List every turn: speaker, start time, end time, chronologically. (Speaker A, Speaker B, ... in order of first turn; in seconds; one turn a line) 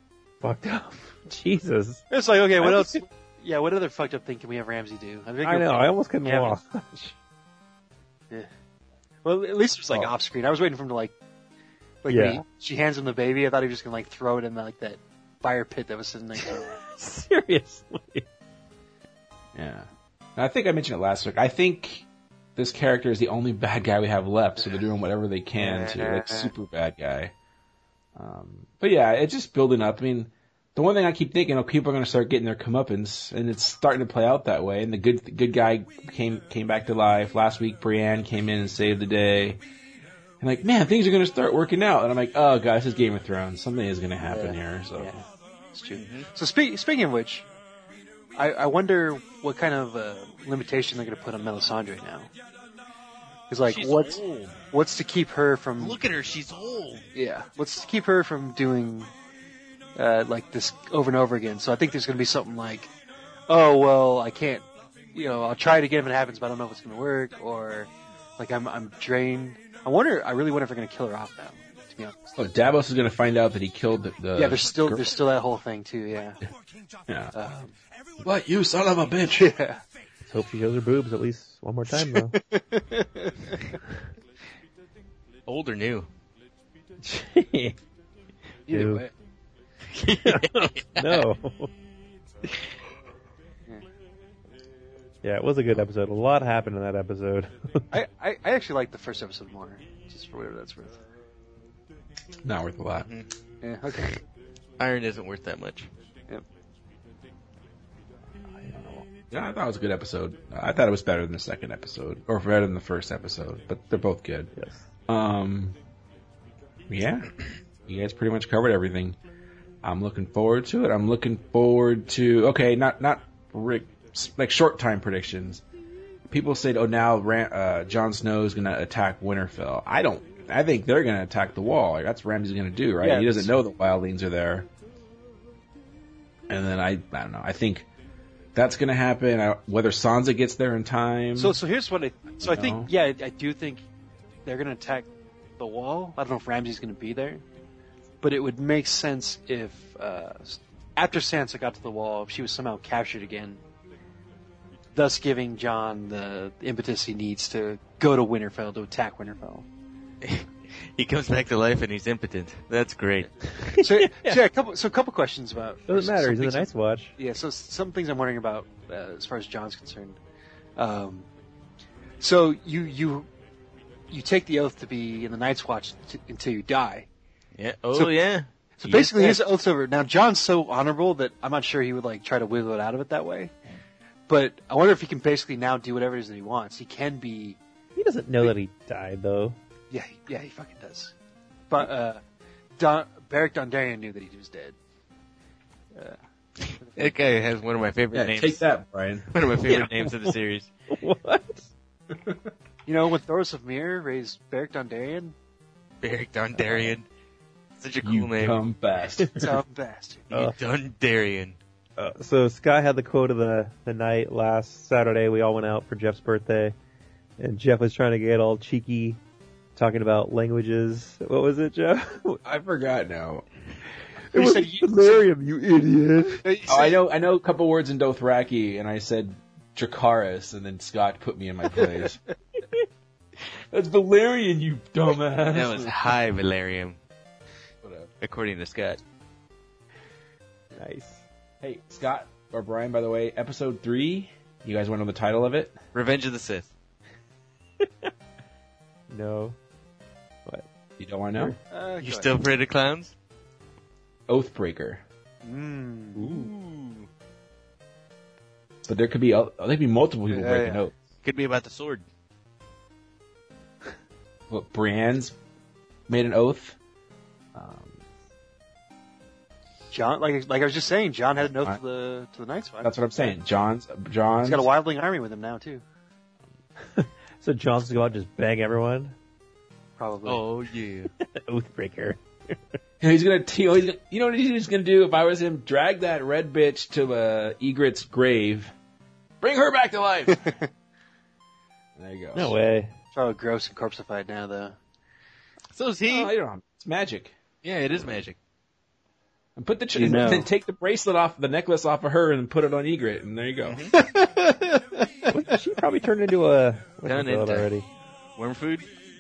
Speaker A: 0.4-2.0
Speaker B: 2.1-6.6
Speaker A: 2.6-3.0
Speaker A: 5.4-7.2
Speaker B: 9.2-11.1
Speaker B: 12.0-16.8
Speaker A: 12.1-12.4
Speaker A: 16.4-18.3
Speaker C: 19.6-27.3
Speaker B: 25.6-26.5
Speaker C: 28.1-39.6
Speaker C: 40.4-45.2
Speaker B: 44.3-47.5
Speaker D: 45.9-46.3
Speaker B: 48.4-52.3
Speaker B: 53.5-56.0
Speaker D: 53.7-54.6
Speaker D: 55.8-57.0
Speaker B: 57.1-59.1
Speaker B: 60.0-62.9
Speaker B: 63.5-72.2
Speaker C: 72.4-75.2
Speaker B: 74.4-76.4
Speaker C: 77.1-77.3
Speaker B: 77.3-77.8
Speaker C: 78.2-79.5
Speaker B: 79.3-79.8
Speaker A: 80.3-82.3
Speaker B: 81.9-83.8
Speaker D: 85.5-86.1
Speaker A: 87.0-87.8
Speaker B: 88.7-89.1
Speaker A: 88.7-89.0
Speaker D: 89.9-91.2
Speaker A: 90.2-91.7
Speaker A: 95.2-97.8
Speaker B: 97.9-101.0
Speaker C: 102.4-103.1
Speaker B: 103.6-104.2
Speaker D: 104.8-105.9
Speaker C: 108.6-114.5
Speaker A: 114.6-114.8
Speaker C: 115.1-115.8
Speaker C: 116.9-117.3
Speaker C: 117.9-119.2
Speaker C: 119.8-125.6
Speaker C: 126.3-134.7
Speaker B: 133.0-133.5
Speaker C: 136.5-137.9
Speaker C: 138.5-141.6
Speaker B: 141.4-143.8
Speaker C: 142.4-142.9
Speaker B: 144.5-147.4
Speaker B: 148.2-153.6
Speaker B: 154.9-159.7
Speaker D: 160.2-163.3
Speaker A: 163.5-164.4
Speaker B: 163.8-170.2
Speaker A: 165.9-167.2
Speaker B: 170.8-171.3
Speaker B: 172.2-173.3
Speaker B: 174.1-177.1
Speaker D: 177.6-178.5
Speaker B: 178.8-183.5
Speaker A: 178.8-179.4
Speaker B: 184.3-187.6
Speaker A: 188.0-189.6
Speaker B: 189.9-191.1
Speaker B: 191.7-192.2
Speaker B: 192.8-194.8
Speaker B: 195.9-196.2
Speaker B: 196.8-197.1
Speaker D: 196.9-198.6
Speaker C: 198.1-199.3
Speaker D: 199.3-200.7
Speaker A: 199.7-200.3
Speaker A: 200.9-201.7
Speaker B: 202.9-205.3
Speaker D: 206.0-207.1
Speaker A: 206.6-206.9
Speaker D: 207.8-208.6
Speaker C: 208.0-209.6
Speaker B: 209.3-210.3
Speaker D: 210.3-211.6
Speaker A: 212.0-216.8
Speaker A: 217.4-219.2
Speaker A: 219.8-222.4
Speaker C: 222.4-223.4
Speaker B: 224.3-225.2
Speaker A: 224.3-226.5
Speaker B: 226.4-227.0
Speaker C: 226.7-232.2
Speaker C: 233.7-236.0
Speaker D: 235.5-237.0
Speaker C: 237.8-238.1
Speaker D: 238.2-239.0
Speaker A: 240.8-241.2
Speaker C: 241.6-245.8
Speaker D: 245.9-246.7
Speaker A: 247.8-248.1
Speaker A: 249.1-249.6
Speaker C: 251.0-251.6
Speaker B: 251.7-252.3
Speaker D: 252.0-253.1
Speaker C: 254.3-255.0
Speaker B: 255.4-256.4
Speaker D: 256.2-257.1
Speaker A: 256.2-256.5
Speaker C: 258.9-260.9
Speaker B: 260.3-260.9
Speaker D: 261.2-262.1
Speaker C: 264.5-265.4
Speaker C: 266.1-266.8
Speaker C: 267.6-268.0
Speaker B: 269.9-273.4
Speaker C: 271.5-271.8
Speaker C: 272.8-274.7
Speaker B: 274.4-275.8
Speaker A: 277.0-279.1
Speaker B: 280.0-280.4
Speaker D: 280.2-281.1
Speaker A: 281.2-282.8
Speaker C: 283.0-288.7
Speaker C: 289.4-290.6
Speaker B: 290.3-290.6
Speaker C: 292.0-292.6
Speaker A: 292.3-292.9
Speaker B: 293.1-294.8
Speaker D: 295.7-296.3
Speaker C: 296.1-297.3
Speaker D: 297.6-298.4
Speaker C: 299.6-303.9
Speaker B: 299.9-300.5
Speaker D: 303.6-303.9
Speaker B: 303.9-305.4
Speaker A: 305.3-307.9
Speaker D: 307.1-307.7
Speaker D: 308.4-308.9